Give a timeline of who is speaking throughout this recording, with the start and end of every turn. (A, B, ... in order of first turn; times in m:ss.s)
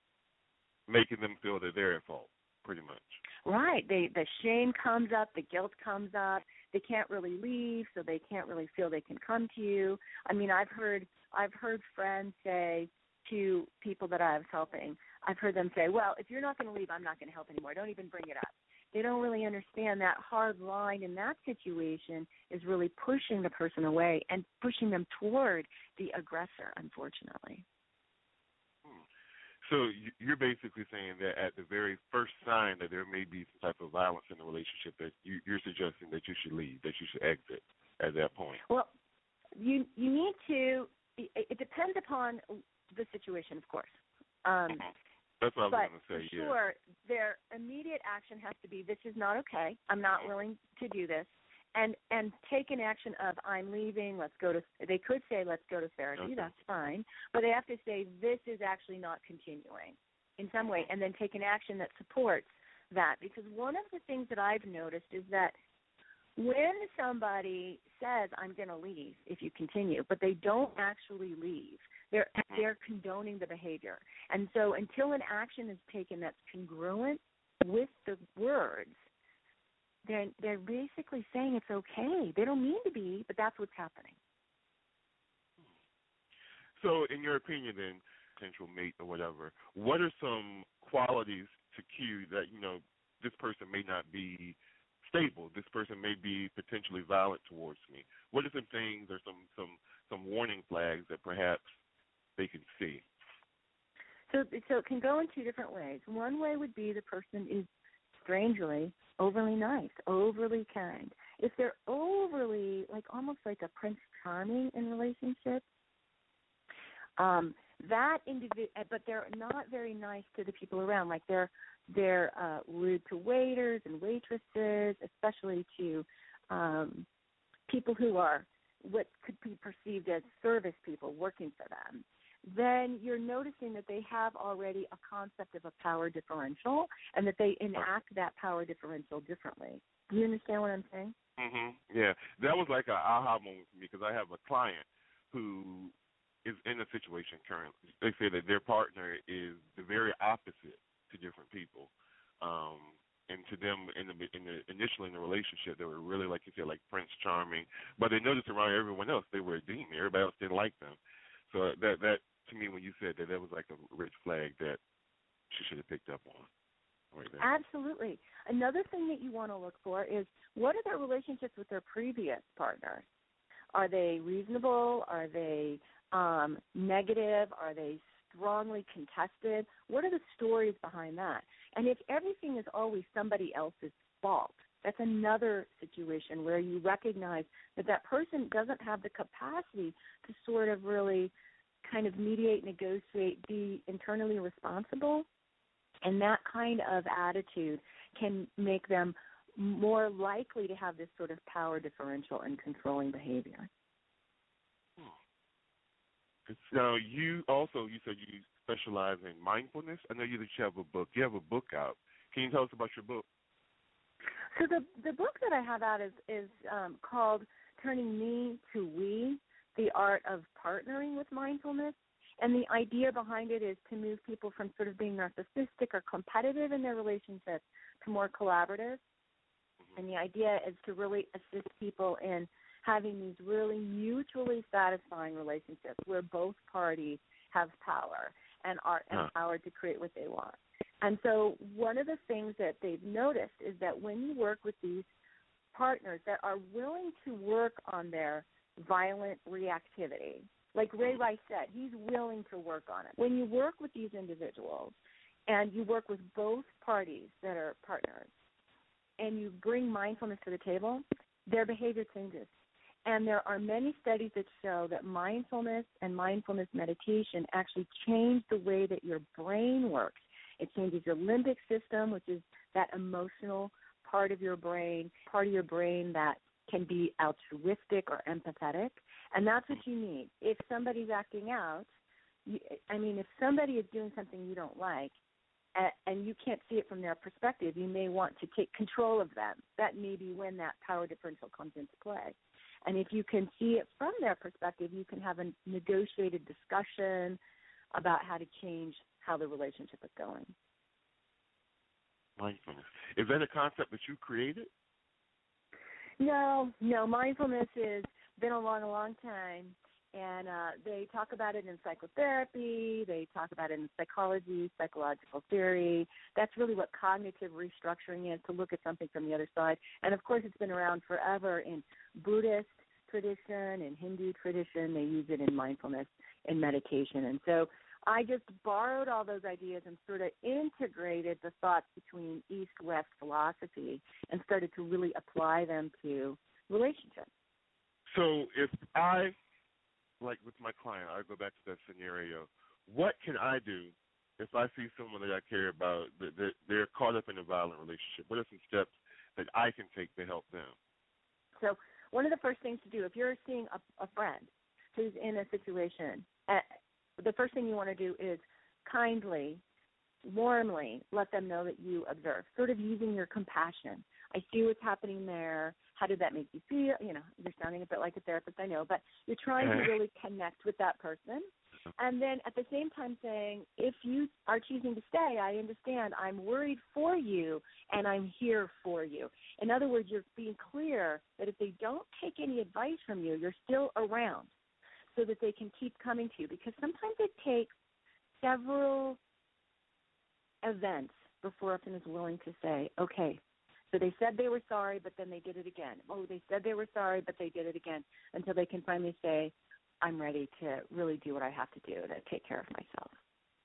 0:00.9-0:03.2 A
0:03.4-0:27.6 B
0:29.6-0:38.6 A
0:38.6-0:38.9 B
0:39.6-0:44.8 B
0:44.7-0:46.6 A
0:45.7-1:05.5 B
0:56.2-0:56.5 A
1:06.4-1:18.9 B
1:20.1-1:24.2 B
1:26.8-1:41.7 A
1:42.4-1:43.0 A
1:44.3-1:55.6 B
1:57.2-2:07.1 B
2:07.7-2:21.1 B
2:21.4-2:44.8 A
2:45.5-2:46.5 A
2:47.1-2:47.4 A
2:47.4-2:53.0 B
2:53.7-3:11.3 B
3:11.8-3:15.3 B
3:16.0-3:23.7 B
3:26.4-3:33.2 A
3:34.5-3:49.0 B
3:50.0-4:05.1 B
4:05.7-4:15.0 B
4:15.5-4:18.3 B
4:19.2-4:22.5 B
4:23.0-4:41.9 B
4:42.4-4:45.1 B
4:45.7-4:57.4 B
4:57.9-5:00.5 B
5:02.4-5:04.7 A
5:06.2-5:37.3 B
5:38.1-5:39.3 A
5:40.2-5:50.8 A
5:51.6-5:56.6 B
5:57.2-5:59.6 B
6:00.2-6:11.5 B
6:09.6-6:09.9 A
6:12.0-6:24.5 B
6:25.1-6:27.7 B
6:28.4-6:29.2 B
6:30.6-6:33.4 B
6:33.9-6:43.1 B